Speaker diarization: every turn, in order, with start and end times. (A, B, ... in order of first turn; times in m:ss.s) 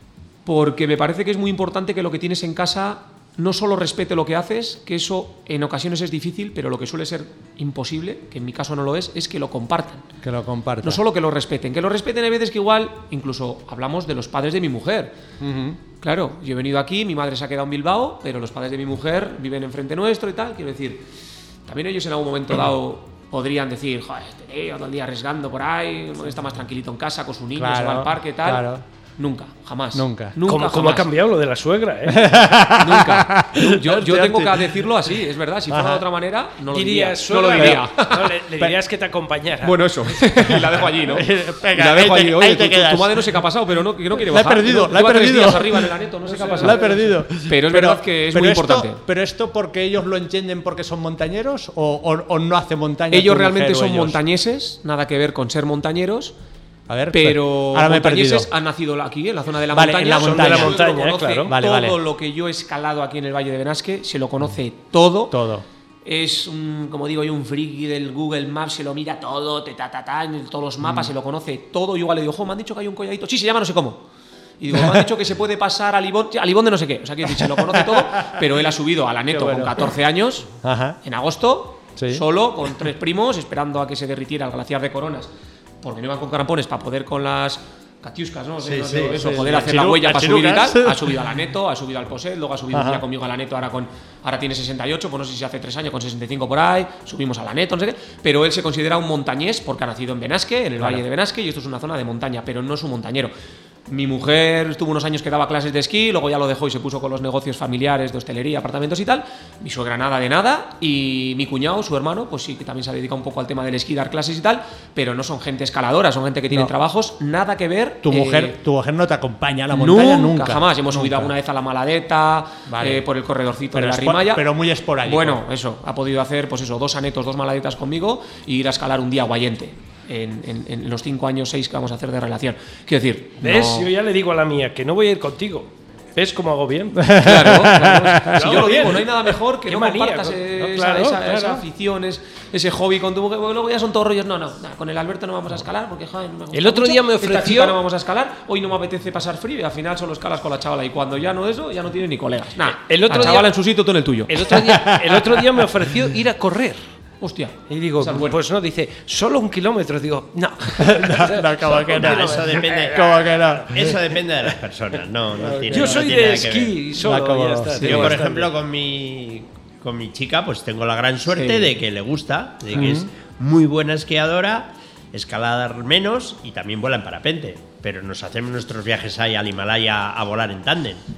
0:00.4-0:10.0 A
0:10.2-0:11.0 B
0:10.8-0:15.1 A
0:15.4-0:15.8 B
0:16.0-0:21.0 A
0:21.6-0:28.7 A
0:27.6-0:28.8 B
0:29.2-0:31.1 A
0:29.9-0:30.4 B
0:30.4-0:32.4 C
0:32.1-0:34.7 B
0:32.7-0:38.3 A
0:35.7-0:36.0 B
0:36.7-0:40.6 C
0:37.6-0:37.9 B
0:39.6-0:49.0 A
0:40.4-0:43.4 B
0:44.1-0:46.0 B
0:46.3-0:47.2 C
0:46.6-0:54.2 B
0:53.1-0:56.4 A
0:56.9-0:58.5 B
0:57.1-1:05.4 A
0:59.7-1:00.8 B
1:00.2-1:01.5 C
1:01.5-1:02.0 B
1:05.3-1:05.6 B
1:06.0-1:14.0 A
1:10.8-1:11.1 B
1:14.6-1:20.5 A
1:14.7-1:15.1 B
1:17.2-1:18.6 B
1:19.3-1:19.9 B
1:20.6-1:21.0 B
1:21.0-1:25.3 A
1:22.0-1:22.2 B
1:25.8-1:43.3 A
1:28.6-1:31.2 B
1:32.7-1:33.0 B
1:43.9-1:58.6 A
1:58.0-2:01.3 B
1:59.7-2:04.4 A
2:02.7-2:03.0 B
2:03.7-2:05.4 B
2:05.0-2:13.9 A
2:13.4-2:21.6 C
2:17.0-2:18.4 B
2:17.2-2:34.4 A
2:26.5-2:27.8 C
2:32.7-2:33.6 C
2:34.3-2:36.8 C
2:34.5-2:35.4 B
2:37.2-2:38.4 A
2:37.7-2:42.8 C
2:40.8-2:43.9 B
2:41.8-2:46.8 D
2:45.4-2:46.3 B
2:45.7-2:48.5 C
2:47.0-2:47.7 B
2:47.7-2:48.2 A
2:47.8-3:01.0 D
2:51.4-2:51.7 A
2:52.7-2:53.1 B